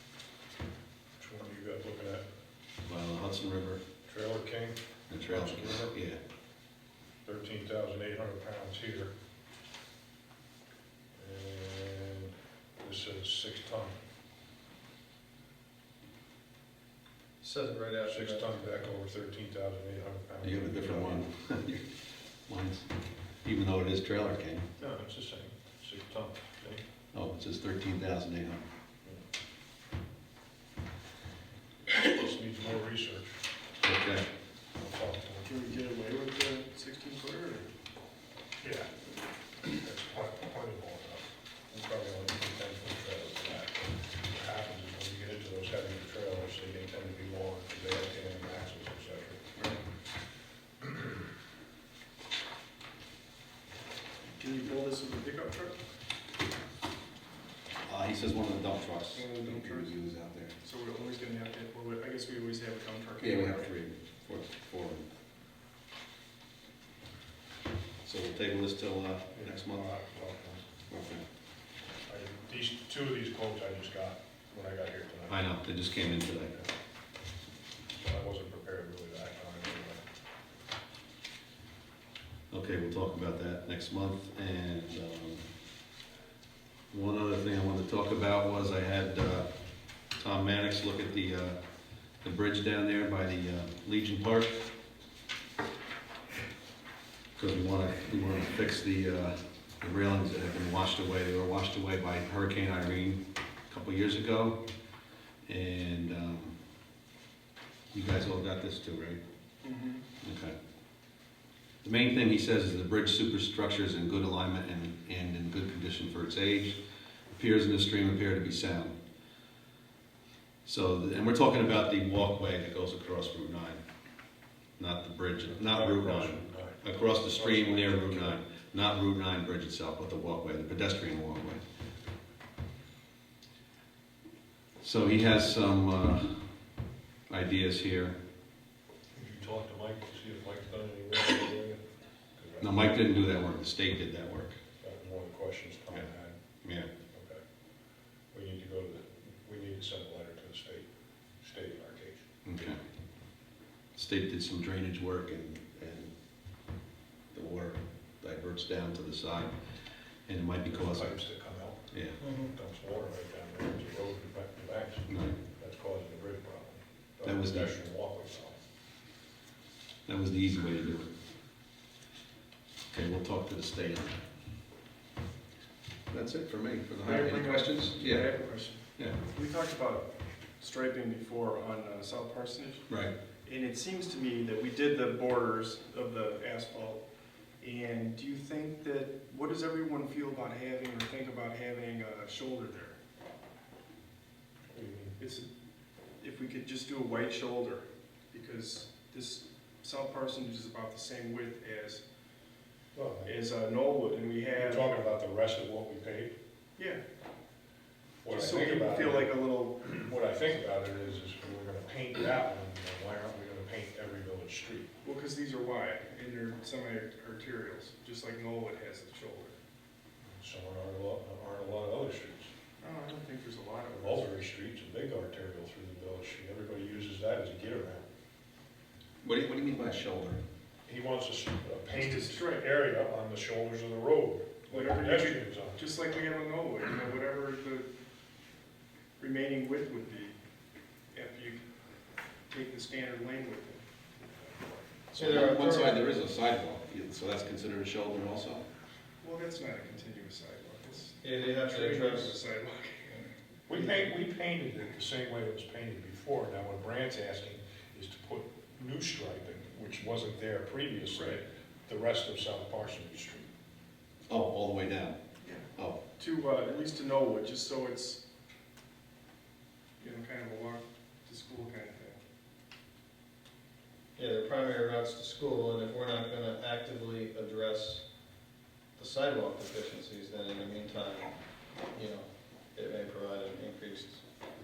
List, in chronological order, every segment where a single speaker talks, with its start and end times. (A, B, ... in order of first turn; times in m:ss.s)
0:01.2-0:02.2 A
0:02.9-0:03.8 B
0:04.1-0:06.0 A
0:05.1-0:06.2 B
0:07.2-0:09.1 A
0:11.2-0:14.0 A
0:17.4-0:18.9 C
0:18.0-0:21.3 A
0:20.4-0:21.8 B
0:22.5-0:22.9 B
0:23.4-0:24.7 B
0:24.8-0:26.8 A
0:27.1-0:28.6 B
0:31.9-0:33.4 A
0:33.8-0:34.3 B
0:34.8-0:35.5 A
0:35.4-0:37.7 D
0:38.6-0:38.9 A
0:39.6-0:49.8 A
0:54.3-0:55.8 D
0:57.8-1:00.5 B
0:59.1-0:59.9 D
1:00.6-1:03.7 D
1:03.2-1:05.1 B
1:08.0-1:09.8 B
1:09.3-1:10.6 A
1:10.9-1:11.2 B
1:12.1-1:15.4 A
1:15.3-1:16.6 B
1:17.9-1:20.0 A
1:22.5-1:25.4 B
1:26.9-1:29.5 B
1:30.2-1:31.6 B
1:32.2-1:34.6 B
1:37.4-1:44.6 B
1:45.5-1:46.6 B
1:47.9-1:49.2 B
1:49.6-1:50.0 D
1:50.2-1:50.6 B
1:51.8-1:56.8 B
1:57.3-1:59.0 B
2:00.6-2:03.8 B
2:04.8-2:11.6 B
2:05.4-2:08.4 A
2:14.8-2:16.4 B
2:17.3-2:18.2 B
2:19.1-2:21.8 A
2:22.4-2:23.0 A
2:22.6-2:24.6 B
2:24.8-2:26.4 A
2:26.6-2:26.9 B
2:27.1-2:27.4 A
2:28.3-2:30.9 A
2:31.4-2:32.6 A
2:32.4-2:32.8 B
2:34.0-2:36.1 B
2:37.3-2:39.5 B
2:40.3-2:41.2 B
2:40.6-2:48.6 A
2:41.9-2:42.2 B
2:42.2-2:42.5 C
2:45.1-2:45.4 B
2:47.2-2:47.8 B
2:50.1-2:51.1 B
2:52.9-2:54.2 B
2:56.1-2:58.3 B
2:57.0-3:00.1 D
3:00.6-3:02.9 D
3:02.9-3:03.1 B
3:03.4-3:07.0 D
3:07.6-3:13.0 D
3:14.7-3:15.2 A
3:15.2-3:15.5 D
3:16.2-3:22.0 D
3:22.9-3:23.4 A
3:23.2-3:24.9 D
3:24.6-3:26.4 A
3:26.8-3:27.0 D
3:28.2-3:34.9 A
3:28.3-3:30.1 D
3:35.0-3:39.6 D
3:40.4-3:42.5 A
3:42.8-3:44.3 D
3:43.9-3:48.1 A
3:49.2-3:50.4 B
3:50.9-3:55.9 A
3:51.9-3:52.7 D
3:54.7-3:57.9 D
3:59.2-4:00.4 D
4:01.1-4:01.6 D
4:02.5-4:04.8 D
4:05.1-4:08.6 B
4:05.2-4:06.0 C
4:09.2-4:13.2 D
4:11.2-4:12.4 C
4:13.7-4:23.5 A
4:21.1-4:21.4 D
4:24.3-4:25.2 B
4:25.4-4:28.2 D
4:25.8-4:26.0 B
4:30.0-4:32.2 D
4:34.2-4:38.0 C
4:39.0-4:41.4 C
4:41.9-4:44.2 C